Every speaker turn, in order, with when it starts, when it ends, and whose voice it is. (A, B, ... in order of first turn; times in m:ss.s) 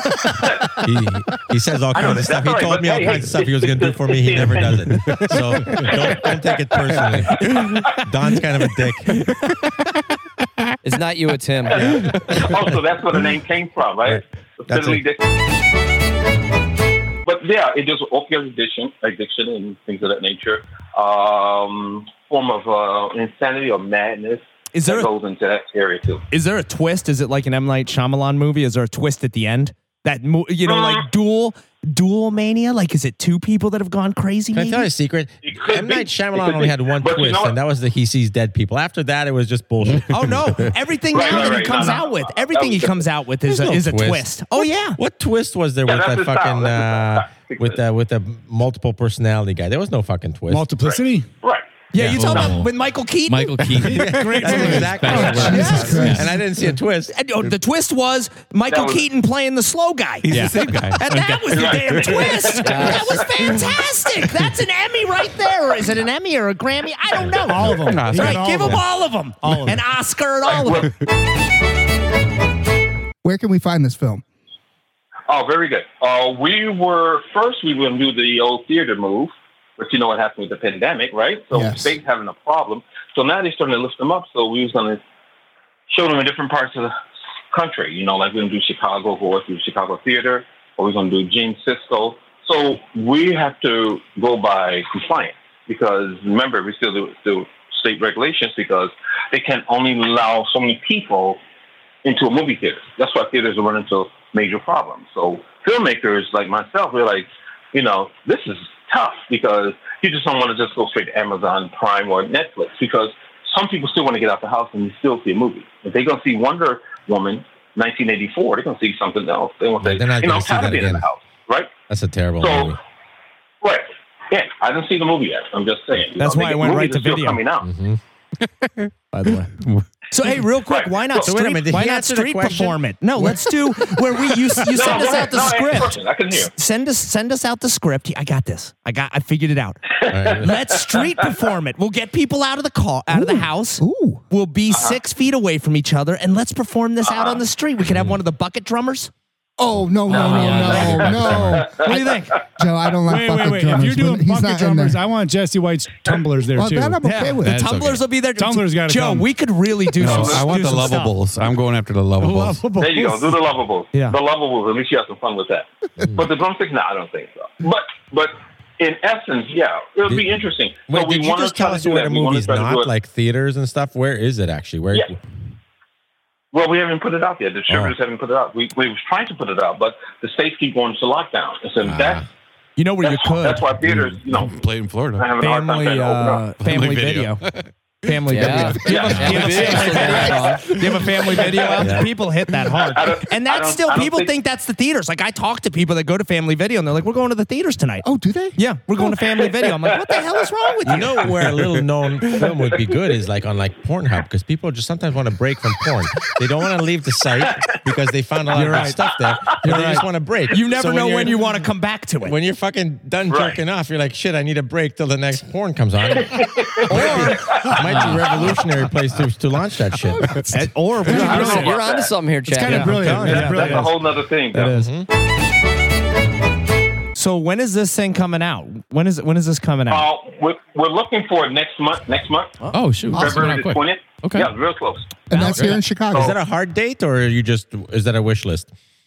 0:00.3-0:00.8 A
0:00.7-0:09.3 B
0:01.9-0:05.2 A
0:05.7-0:08.0 A
0:10.8-0:11.9 C
0:11.7-0:15.2 A
0:11.8-0:12.7 B
0:14.0-0:15.0 B
0:17.2-0:26.2 A
0:24.7-0:25.1 D
0:26.3-0:34.9 D
0:30.6-0:31.0 A
0:34.5-0:40.3 B
0:35.4-0:37.6 A
0:39.8-0:40.7 E
0:40.1-0:45.0 D
0:41.1-0:43.1 A
0:43.5-0:50.7 B
0:45.8-0:47.8 A
0:50.5-0:51.3 F
0:50.9-0:51.6 A
0:51.9-0:53.7 D
0:52.0-0:52.7 G
0:53.3-0:56.3 G
0:53.8-0:56.2 F
0:53.8-0:57.1 B
0:55.1-0:56.2 H
0:57.1-1:10.9 D
0:58.7-0:59.1 A
1:00.2-1:01.3 E
1:01.5-1:03.3 A
1:02.6-1:03.1 C
1:07.4-1:09.8 F
1:07.7-1:08.8 E
1:10.4-1:10.9 A
1:13.2-1:14.2 H
1:15.3-1:25.0 A
1:21.5-1:22.0 H
1:25.9-1:26.9 A
1:27.5-1:41.4 A
1:42.0-2:01.8 A
1:59.8-2:01.0 B
2:01.9-2:02.8 B
2:02.4-2:02.8 A
2:03.6-2:07.7 A
2:06.2-2:07.4 D
2:07.6-2:08.0 B
2:09.1-2:09.6 D
2:09.6-2:09.8 E
2:10.1-2:29.1 D
2:10.6-2:11.3 A
2:11.2-2:12.8 B
2:14.7-2:16.5 A
2:20.0-2:20.4 A
2:20.1-2:20.5 B
2:20.9-2:21.3 A
2:23.1-2:24.2 H
2:24.7-2:25.0 A
2:27.0-2:27.4 A
2:29.6-2:31.8 H
2:30.1-2:32.4 D
2:30.1-2:31.4 G
2:30.1-2:32.5 A
2:30.3-2:31.6 B
2:32.6-2:35.0 H
2:33.1-2:37.6 F
2:36.5-2:37.6 H
2:37.0-2:41.1 D
2:37.5-2:38.0 G
2:38.4-2:39.3 F
2:40.0-2:40.5 A
2:40.0-2:42.7 E
2:42.2-2:43.4 F
2:42.7-2:52.9 A
2:46.0-2:46.3 B
2:50.1-2:55.1 B
2:56.5-3:02.2 A
2:57.7-2:57.9 B
3:01.8-3:02.2 B
3:02.8-3:03.8 D
3:03.0-3:04.6 A
3:03.9-3:05.3 E
3:05.2-3:06.5 A
3:05.4-3:07.4 D
3:06.6-3:08.3 E
3:08.0-3:21.2 D
3:08.3-3:10.7 C
3:08.8-3:10.6 A
3:11.2-3:11.9 A
3:11.8-3:12.1 B
3:12.8-3:14.3 A
3:18.0-3:18.6 H
3:19.2-3:21.0 A
3:20.8-3:31.4 B
3:22.4-3:23.1 A
3:27.4-3:27.8 A
3:28.5-3:29.0 D
3:29.1-3:29.6 A
3:29.6-3:32.3 D
3:32.2-3:40.4 B
3:33.3-3:33.6 A
3:36.1-3:38.6 A
3:36.9-3:37.4 D
3:37.8-3:38.2 G
3:40.5-3:41.8 D
3:41.1-3:42.2 A
3:41.2-3:43.1 C
3:41.2-3:41.6 F
3:42.5-3:44.0 F
3:42.6-3:43.8 D
3:43.0-3:43.5 B
3:43.1-3:44.8 A
3:44.5-3:44.8 D
3:44.7-3:45.1 B
3:47.2-3:50.1 D
3:49.9-3:52.6 A
3:52.7-3:54.5 G
3:53.1-3:55.0 A
3:55.3-3:56.3 H
3:55.3-3:55.6 D
3:55.5-3:55.8 G
3:56.1-3:58.7 B